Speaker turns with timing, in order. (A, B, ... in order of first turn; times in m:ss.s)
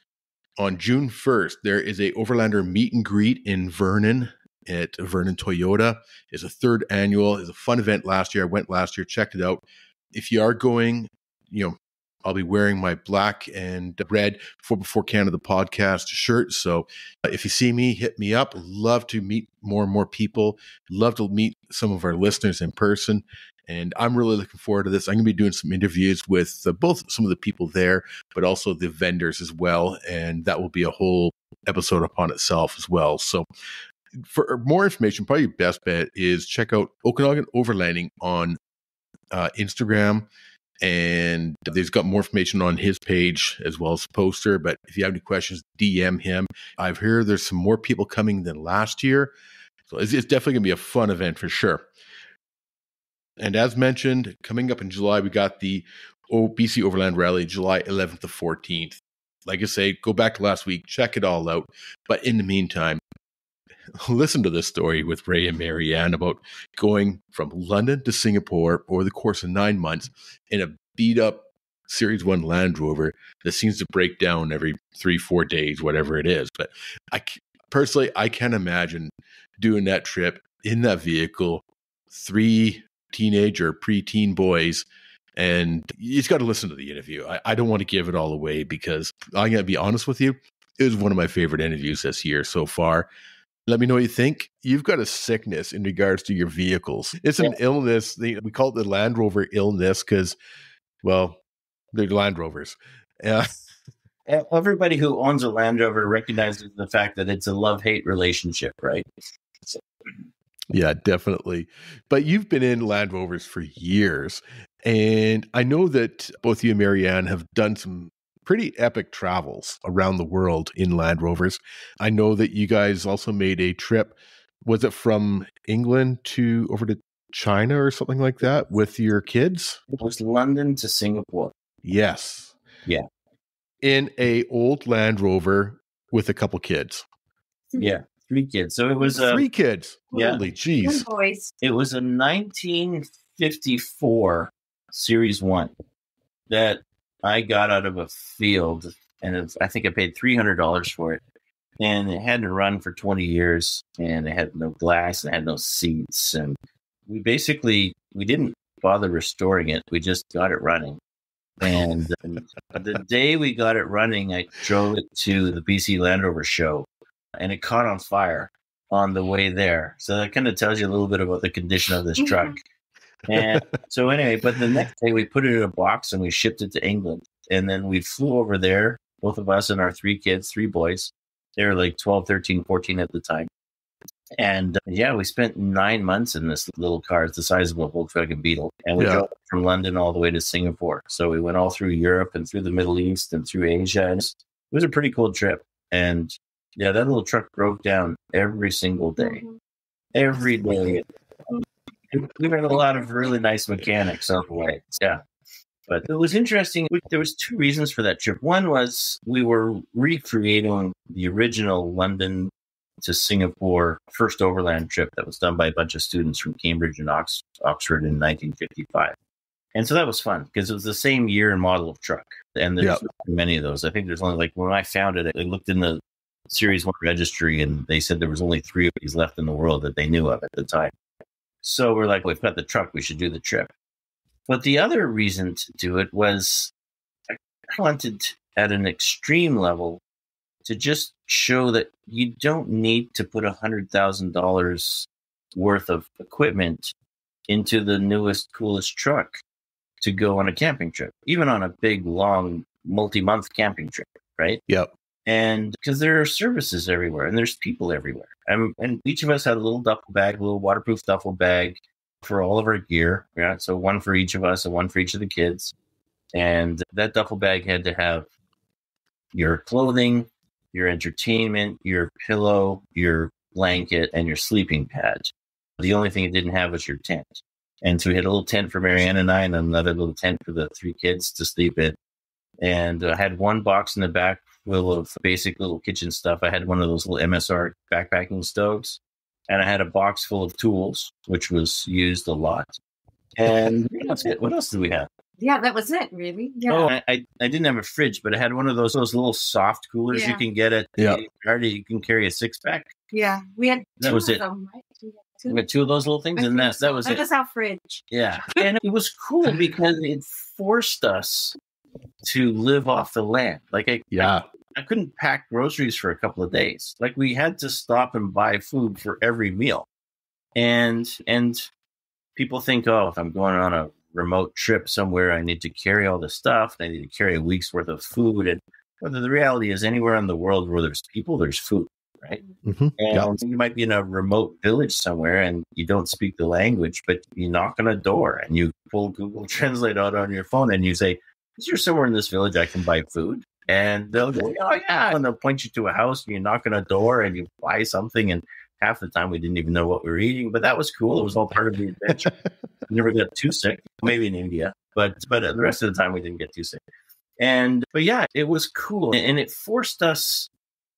0:00.6-0:33.4 A
0:34.2-0:38.6 A
0:39.3-0:40.3 A
0:40.8-0:49.3 A
0:49.9-0:51.8 A
0:53.4-1:03.0 A
1:04.0-1:33.1 A
1:33.7-1:40.4 A
1:41.0-1:41.4 A
1:41.9-1:43.7 A
1:44.2-1:49.1 B
1:50.7-2:09.8 A
2:10.0-2:11.5 B
2:11.8-2:12.5 A
2:13.8-2:17.0 A
2:17.8-2:19.4 B
2:19.2-2:21.0 A
2:20.1-2:20.4 B
2:20.8-2:21.5 C
2:21.6-2:25.7 B
2:26.5-2:31.2 B
2:31.8-2:36.6 B
2:37.1-2:41.0 B
2:41.6-2:52.6 B
2:52.2-2:52.5 C
2:53.3-3:03.5 B
2:53.3-2:53.8 A
3:04.4-3:19.4 B
3:09.0-3:09.2 A
3:19.2-3:19.5 C
3:20.1-3:21.0 B
3:22.1-3:25.2 B
3:25.9-3:39.2 B
3:39.7-3:50.9 B
3:51.6-3:53.7 B
3:54.5-3:56.7 B
3:57.3-4:00.0 B
4:00.6-4:06.9 B
4:07.5-4:09.4 B
4:10.0-4:14.6 B
4:15.2-4:25.7 B
4:26.3-4:28.3 B
4:29.3-4:42.0 B
4:42.6-4:52.8 B
4:53.4-4:55.1 B
4:55.4-4:56.9 C
4:56.7-5:02.9 B
5:00.1-5:00.4 C
5:03.1-5:05.6 C
5:04.0-5:04.4 B
5:05.5-5:07.2 B
5:06.4-5:08.6 C
5:08.1-5:11.6 B
5:12.2-5:19.9 B
5:14.1-5:14.4 A
5:20.5-5:21.7 B
5:22.4-5:32.4 B
5:32.6-5:33.3 A
5:33.0-5:52.3 B
5:52.9-5:56.8 B
5:57.4-6:00.5 B